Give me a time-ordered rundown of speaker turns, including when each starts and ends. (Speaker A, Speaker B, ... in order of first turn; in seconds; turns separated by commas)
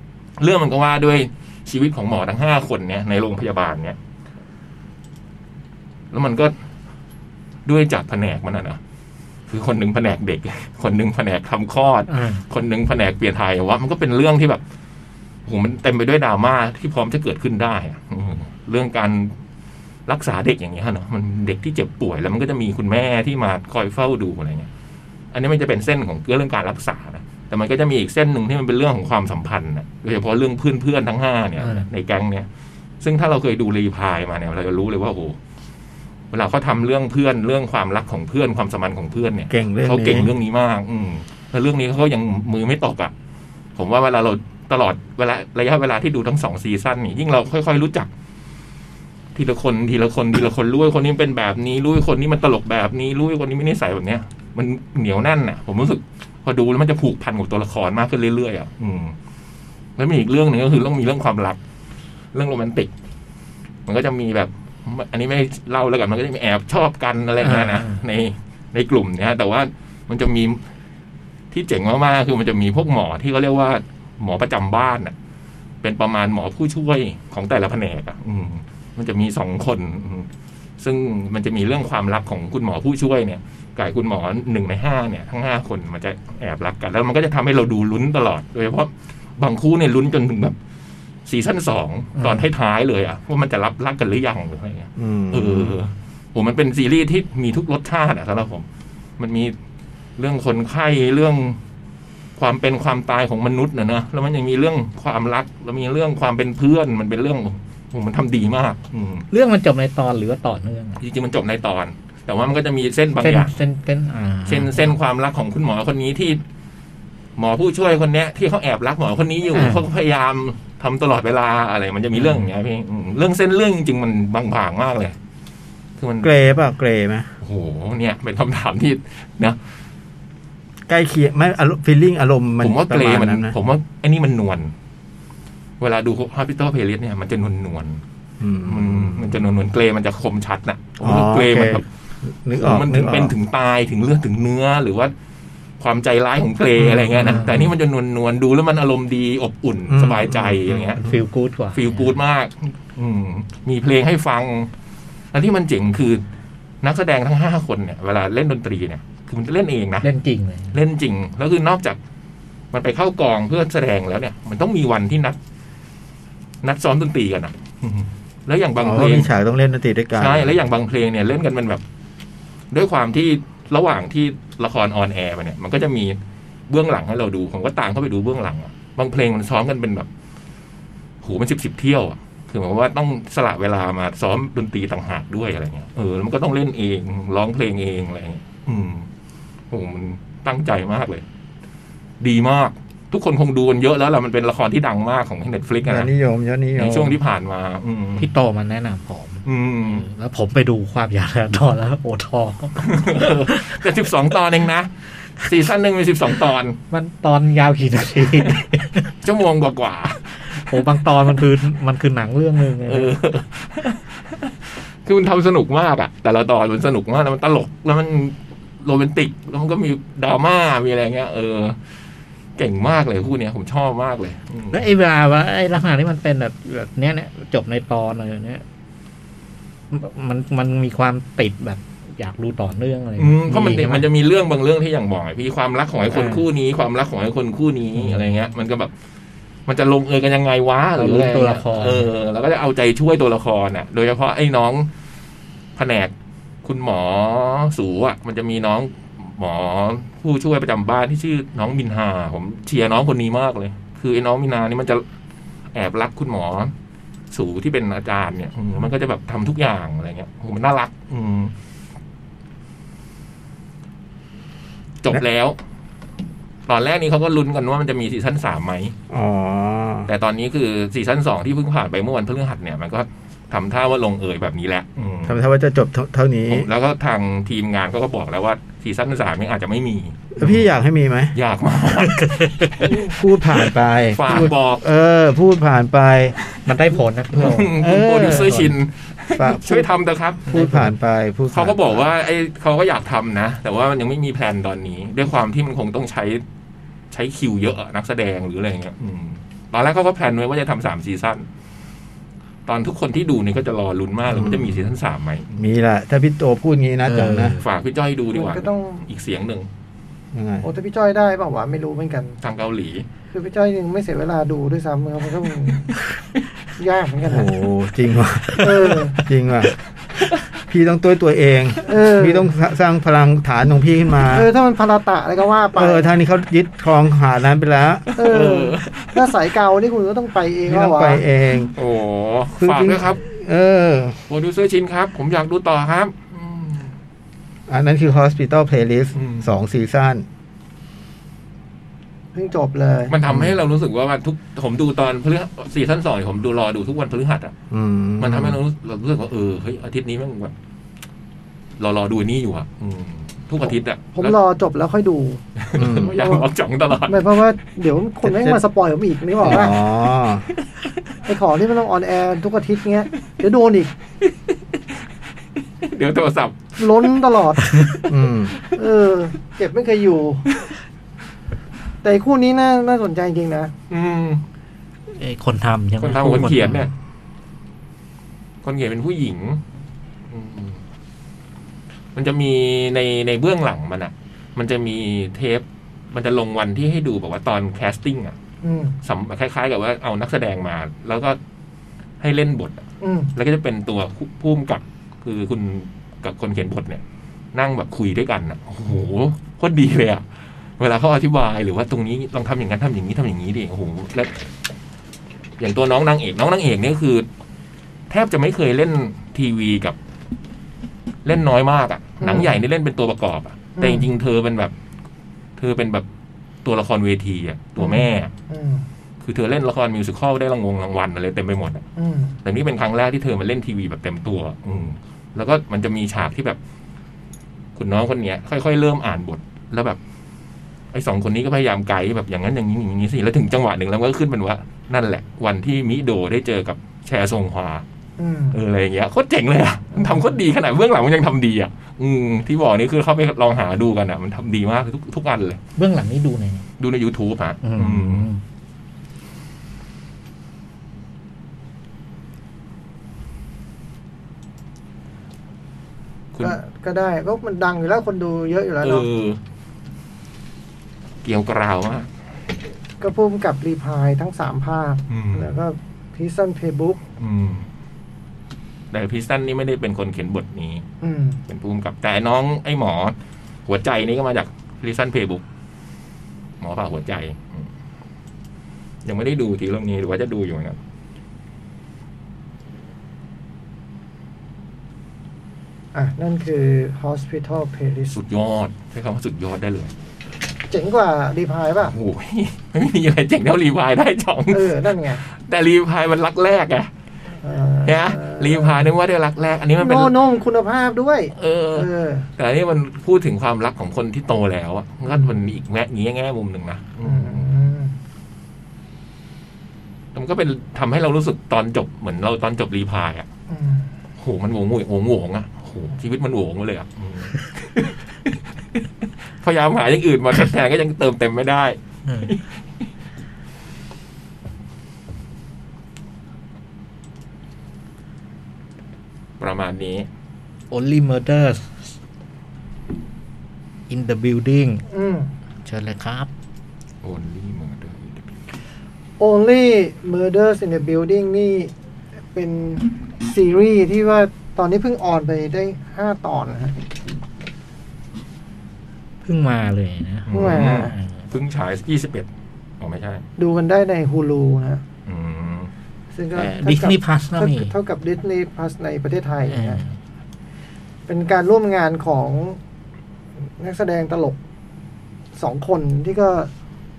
Speaker A: 0.4-4.0, Speaker A: 6.1-6.5, Speaker A: 7.7-8.8, Speaker A: 9.5-14.6, Speaker B: 12.1-12.4, Speaker A: 15.5-19.4, Speaker A: 20.1-24.7, Speaker A: 25.3-32.5, Speaker B: 31.6-31.9, Speaker A: 33.0-35.4, Speaker A: 36.3-43.1, Speaker C: 39.5-40.3, Speaker A: 43.8-48.1, Speaker A: 49.4-59.1, Speaker A: 60.0-61.6, Speaker A: 62.3-62.9, Speaker A: 63.9-70.6, Speaker B: 67.4-68.0, Speaker A: 71.5-75.1, Speaker A: 75.8-90.6, Speaker A: 91.3-98.7, Speaker B: 92.2-92.5, Speaker C: 95.0-95.8, Speaker A: 99.2-99.5, Speaker A: 100.2-101.6, Speaker A: 102.4-109.3, Speaker B: 109.3-111.0, Speaker A: 111.0-113.5, Speaker B: 113.2-115.0, Speaker A: 114.5-116.4, Speaker A: 117.4-125.2, Speaker B: 119.5-119.8, Speaker B: 122.2-122.5, Speaker A: 126.0-126.5, Speaker C: 126.2-127.3, Speaker A: 127.4-129.6, Speaker C: 130.9-133.6, Speaker A: 132.6-134.7, Speaker A: 135.8-138.0, Speaker C: 138.4-139.4, Speaker A: 138.7-141.8, Speaker C: 141.0-143.3, Speaker A: 142.6-145.1, Speaker A: 145.8-151.0, Speaker B: 147.1-147.6, Speaker C: 147.2-147.7, Speaker C: 149.9-151.2, Speaker B: 151.0-152.2, Speaker A: 151.7-154.7, Speaker A: 155.3-156.2, Speaker A: 156.8-160.1, Speaker B: 160.0-160.8, Speaker A: 160.7-162.0, Speaker A: 162.7-165.4, Speaker A: 166.6-169.3, Speaker C: 168.8-170.6, Speaker A: 170.2-171.8, Speaker A: 172.7-176.2, Speaker A: 176.7-180.1, Speaker A: 181.2-189.1, Speaker A: 189.7-191.2, Speaker A: 192.2-196.1, Speaker C: 195.8-197.2, Speaker A: 196.8-198.3, Speaker B: 198.2-203.8, Speaker A: 199.4-200.1, Speaker A: 202.8-206.8, Speaker B: 206.9-209.1, Speaker A: 209.2-210.3, Speaker B: 210.6-213.1, Speaker A: 212.9-214.5, Speaker A: 215.1-221.8, Speaker A: 222.6-224.9, Speaker B: 224.7-228.6, Speaker B: 229.9-234.1, Speaker A: 233.2-238.9, Speaker B: 236.1-236.5, Speaker B: 238.0-238.3, Speaker A: 239.7-244.9, Speaker B: 241.0-242.1, Speaker A: 245.8-246.1, Speaker A: 246.6-255.0, Speaker A: 255.7-256.7, Speaker A: 257.3-261.5, Speaker A: 265.0-265.6, Speaker A: 266.7-268.9, Speaker C: 269.1-270.1, Speaker A: 270.1-275.4, Speaker C: 275.3-276.7, Speaker A: 276.5-280.7, Speaker C: 280.4-281.3, Speaker A: 281.3-282.9, Speaker B: 282.0-283.1, Speaker C: 282.9-286.4, Speaker A: 284.1-284.9, Speaker B: 286.7-288.7, Speaker A: 287.3-290.5, Speaker C: 287.7-288.7, Speaker C: 289.4-289.9, Speaker C: 290.5-291.8, Speaker B: 290.5-290.9, Speaker A: 291.5-296.4, Speaker A: 297.1-301.5, Speaker A: 302.7-305.5, Speaker C: 304.3-304.8, Speaker C: 305.6-307.6, Speaker B: 307.1-307.6, Speaker A: 307.6-309.7, Speaker D: 308.3-309.1, Speaker C: 310.3-310.7, Speaker D: 310.6-312.4, Speaker A: 312.4-313.1, Speaker D: 313.3-315.9, Speaker D: 316.8-317.5, Speaker C: 317.3-319.7, Speaker D: 318.6-319.2, Speaker C: 320.7-324.5, Speaker D: 321.8-322.5, Speaker D: 324.3-326.1, Speaker C: 325.8-328.1, Speaker A: 328.1-329.3, Speaker D: 328.1-331.2, Speaker C: 330.7-331.7, Speaker A: 331.8-333.2, Speaker C: 332.6-334.2, Speaker A: 334.3-336.9, Speaker C: 337.7-340.2, Speaker A: 339.2-339.5, Speaker D: 342.4-343.1, Speaker A: 343.1-347.5, Speaker C: 343.3-343.5, Speaker C: 347.7-348.6, Speaker A: 348.2-350.5, Speaker A: 351.8-354.4, Speaker D: 354.1-355.4, Speaker A: 355.6-357.3, Speaker C: 355.8-356.1, Speaker D: 356.1-356.4, Speaker D: 357.1-359.8, Speaker C: 359.4-360.5, Speaker D: 361.2-363.9, Speaker A: 365.8-366.8, Speaker D: 366.8-367.7, Speaker C: 368.1-368.6, Speaker D: 368.7-370.5, Speaker D: 372.0-373.7, Speaker A: 373.9-374.4, Speaker B: 375.1-376.9, Speaker A: 376.0-376.9, Speaker A: 378.6-379.6, Speaker A: 380.3-380.8, Speaker A: 382.1-388.4, Speaker D: 388.6-389.0, Speaker A: 389.0-391.4, Speaker A: 392.2-392.8, Speaker D: 393.0-393.3, Speaker A: 393.4-397.0, Speaker A: 397.5-400.2, Speaker A: 400.8-404.4, Speaker A: 405.6-407.3, Speaker A: 408.1-410.0, Speaker A: 411.2-414.7, Speaker D: 412.2-412.6, Speaker D: 413.8-414.1, Speaker A: 415.6-416.1, Speaker A: 416.6-418.3, Speaker D: 417.8-418.9, Speaker A: 419.2-421.9, Speaker D: 422.0-422.4, Speaker A: 422.4-426.6, Speaker A: 427.8-430.0, Speaker A: 430.9-437.8, Speaker D: 438.2-438.6, Speaker A: 438.5-445.6, Speaker B: 445.8-446.6, Speaker A: 446.8-448.3, Speaker B: 447.6-448.4, Speaker D: 456.4-459.1, Speaker A: 458.8-459.4, Speaker A: 461.2-462.1, Speaker D: 463.0-467.0, Speaker A: 465.1-465.5, Speaker A: 467.2-467.7, Speaker A: 468.9-470.9, Speaker D: 471.0-471.4, Speaker A: 471.5-475.4, Speaker A: 476.6-477.7, Speaker A: 479.1-480.8, Speaker D: 485.9-488.2, Speaker A: 488.1-489.9, Speaker D: 490.7-491.9, Speaker A: 491.9-496.9, Speaker D: 494.5-495.2, Speaker D: 497.4-498.8, Speaker A: 497.9-500.1, Speaker D: 499.8-502.3, Speaker A: 501.4-507.4, Speaker D: 505.1-505.3, Speaker D: 507.0-508.0, Speaker A: 510.1-513.3, Speaker D: 513.5-513.9, Speaker A: 514.2-518.8, Speaker A: 519.4-522.5, Speaker B: 522.1-522.3, Speaker A: 529.4-530.1, Speaker B: 530.7-531.9, Speaker B: 533.9-534.9, Speaker D: 534.9-535.3, Speaker B: 535.6-536.3, Speaker A: 537.0-538.4, Speaker D: 539.2-541.7, Speaker D: 542.3-546.8, Speaker B: 549.2-551.2, Speaker A: 550.3-552.3, Speaker D: 550.3-551.0, Speaker A: 552.8-553.2, Speaker D: 553.4-554.8, Speaker A: 555.1-555.7, Speaker D: 556.1-559.8, Speaker B: 556.4-557.7, Speaker B: 559.5-560.0, Speaker D: 561.1-562.6, Speaker D: 563.6-564.4, Speaker D: 565.4-566.5